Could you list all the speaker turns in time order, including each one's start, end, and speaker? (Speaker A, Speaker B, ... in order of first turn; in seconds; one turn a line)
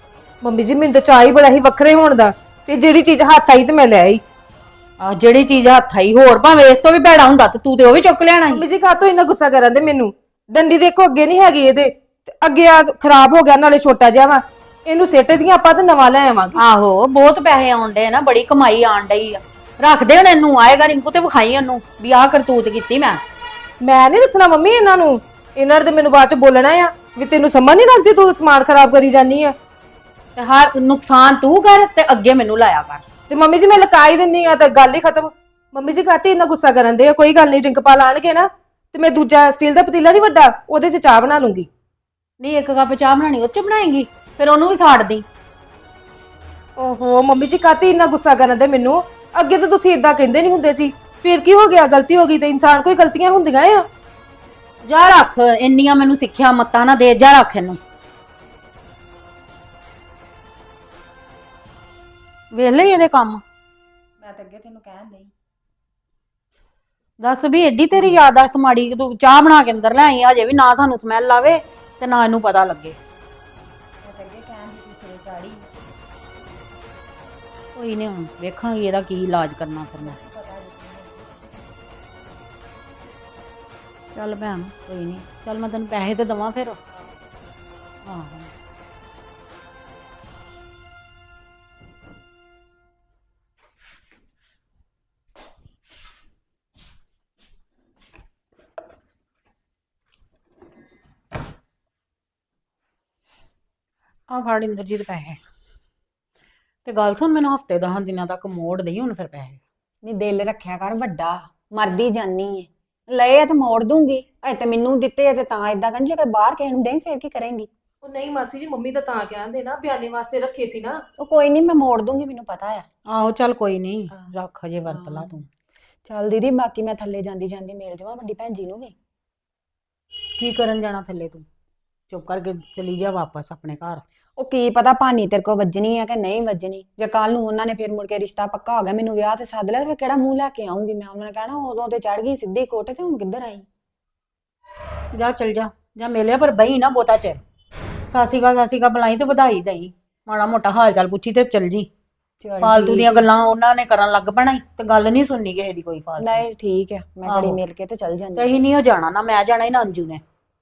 Speaker A: 0.4-4.2
Speaker B: 5.0-8.6
Speaker A: 8.6-16.6
Speaker B: 16.6-23.2
Speaker A: 23.8-29.5
Speaker B: 30.4-33.0
Speaker A: 33.3-41.7
Speaker B: 42.4-45.2
Speaker A: 46.8-53.8
Speaker B: 54.8-57.8
Speaker B: 62.5-63.4
Speaker C: 64.2-65.3
Speaker B: 67.2-73.0
Speaker C: 67.9-68.2
Speaker C: 74.0-75.7
Speaker B: 77.8-80.2
Speaker C: 80.0-81.4
Speaker B: 84.1-86.8
Speaker B: 88.0-88.5
Speaker B: 104.3-105.4
Speaker B: 106.8-109.6
Speaker C: 110.0-117.7
Speaker A: 118.0-121.0
Speaker C: 121.2-122.8
Speaker B: 123.0-125.5
Speaker C: 124.8-125.4
Speaker C: 126.0-128.9
Speaker B: 130.4-131.4
Speaker B: 132.1-134.0
Speaker C: 134.4-143.7
Speaker B: 145.1-147.4
Speaker B: 148.1-151.9
Speaker C: 152.4-153.3
Speaker B: 152.6-156.4
Speaker C: 156.2-158.5
Speaker B: 157.2-157.6
Speaker B: 158.3-160.2